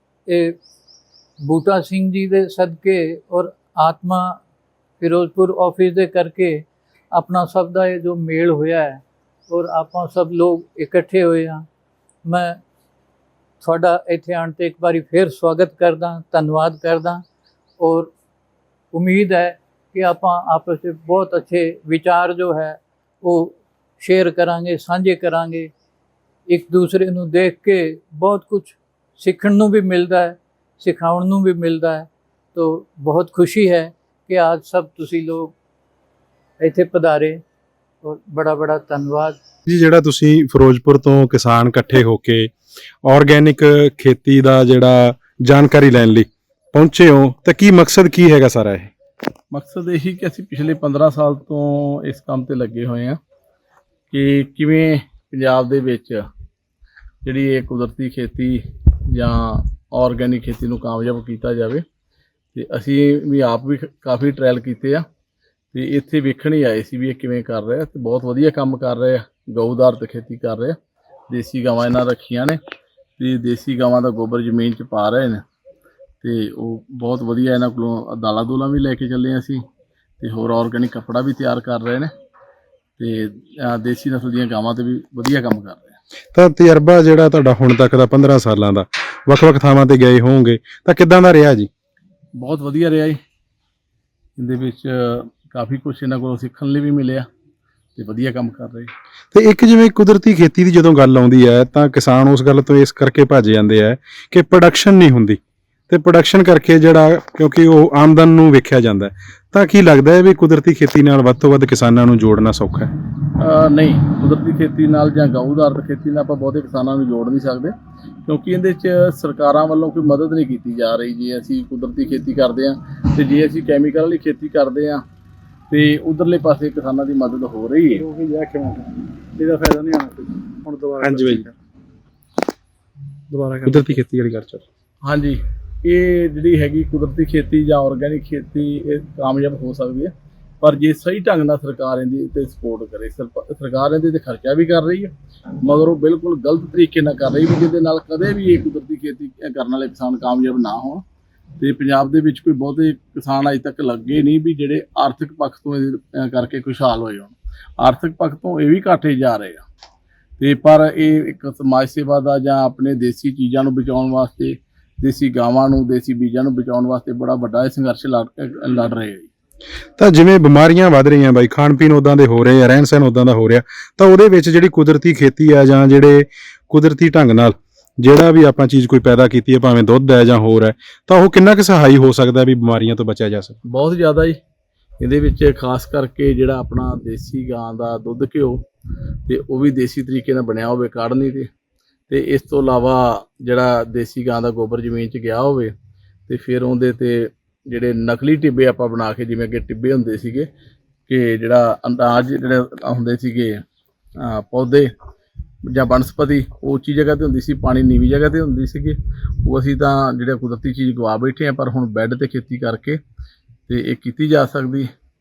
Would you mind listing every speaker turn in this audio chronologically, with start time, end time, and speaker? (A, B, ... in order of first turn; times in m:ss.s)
0:00.2-0:00.6 A
0:01.4-0:04.4 A
0:05.0-0:11.6 A
0:12.2-0:12.6 A
0:13.6-0:17.2 A
0:17.8-0:18.1 A
0:18.9-0:25.7 A
0:26.5-0:35.5 A
0:36.6-0:37.4 A
0:38.0-0:39.4 A
0:39.7-0:42.5 B
0:43.0-0:48.9 B
0:49.5-0:53.2 C
0:54.1-0:56.2 C
0:57.2-1:01.8 C
1:02.5-1:05.0 C
1:05.7-1:10.8 C
1:11.3-1:12.6 C
1:13.2-1:15.4 C
1:16.2-1:19.6 C
1:20.2-1:22.1 C
1:23.0-1:26.0 C
1:26.3-1:31.7 B
1:32.3-1:33.2 C
1:34.4-1:37.2 C
1:38.0-1:38.9 C
1:39.3-1:52.9 B
1:53.4-1:57.7 C
1:58.2-2:05.0 C
2:05.7-2:08.0 C
2:07.9-2:11.5 D
2:11.0-2:11.5 B
2:13.3-2:14.0 D
2:13.6-2:14.6 B
2:15.0-2:25.1 C
2:25.6-2:31.0 C
2:31.6-2:39.6 C
2:40.4-2:49.3 C
2:50.0-3:03.6 B
3:03.6-3:04.4 C
3:05.0-3:08.6 C
3:09.3-3:11.5 C
3:12.1-3:15.7 C
3:16.3-3:20.5 C
3:21.1-3:23.6 C
3:24.2-3:24.9 C
3:25.6-3:33.0 C
3:33.7-3:34.9 C